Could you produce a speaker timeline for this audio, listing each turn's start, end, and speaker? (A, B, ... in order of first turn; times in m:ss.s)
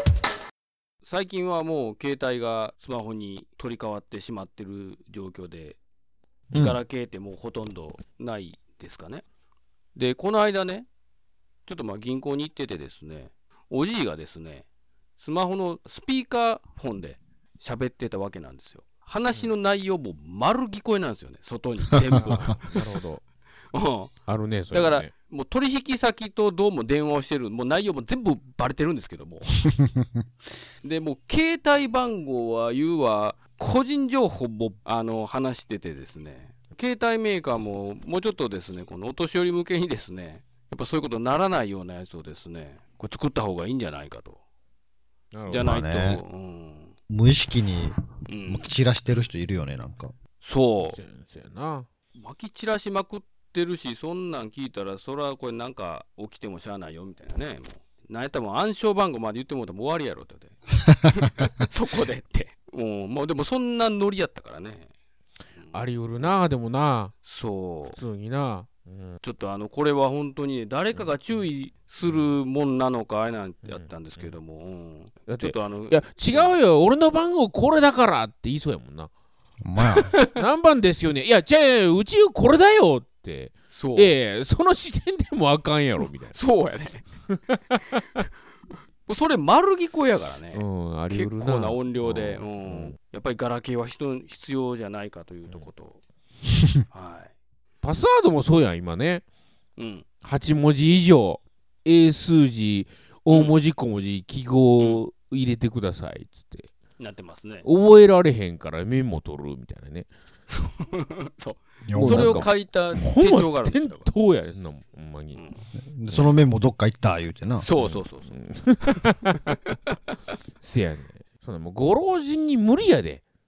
0:01.0-0:05.8 A
0:06.5-0:06.8 B
0:06.6-0:09.2 A
0:10.0-0:10.9 A
0:11.6-0:14.6 A
0:15.2-0:22.8 A
0:22.1-0:23.2 C
0:23.7-0:24.1 A
0:24.3-0:25.1 C
0:24.7-0:29.6 A
0:30.8-0:44.4 A
0:45.3-0:45.7 C
0:45.5-0:47.0 A
0:45.5-0:46.2 B
0:47.1-0:50.2 B
0:48.3-0:48.7 A
0:50.4-0:51.0 A
0:50.8-0:51.9 C
0:52.2-1:04.9 A
1:05.6-1:05.8 A
1:05.7-1:07.1 C
1:07.2-1:08.0 A
1:07.9-1:09.2 C
1:09.2-1:16.6 A
1:10.9-1:11.4 C
1:12.1-1:12.3 C
1:13.6-1:14.3 C
1:15.3-1:19.1 C
1:19.6-1:20.1 B
1:20.3-1:26.4 C
1:23.7-1:24.1 A
1:26.3-1:27.1 A
1:27.3-1:27.8 C
1:29.1-1:36.0 A
1:30.5-1:33.0 C
1:36.9-1:37.3 A
1:37.8-1:39.2 C
1:39.8-1:40.1 A
1:40.2-1:46.7 C
1:43.3-1:43.6 A
1:47.0-1:47.7 A
1:47.6-1:50.1 C
1:50.5-1:54.1 A
1:51.9-1:52.5 B
1:52.0-1:55.4 C
1:55.3-1:55.6 A
1:55.8-1:57.7 B
1:56.1-1:56.4 C
1:57.6-1:58.3 A
1:57.8-1:59.6 C
2:00.6-2:03.2 C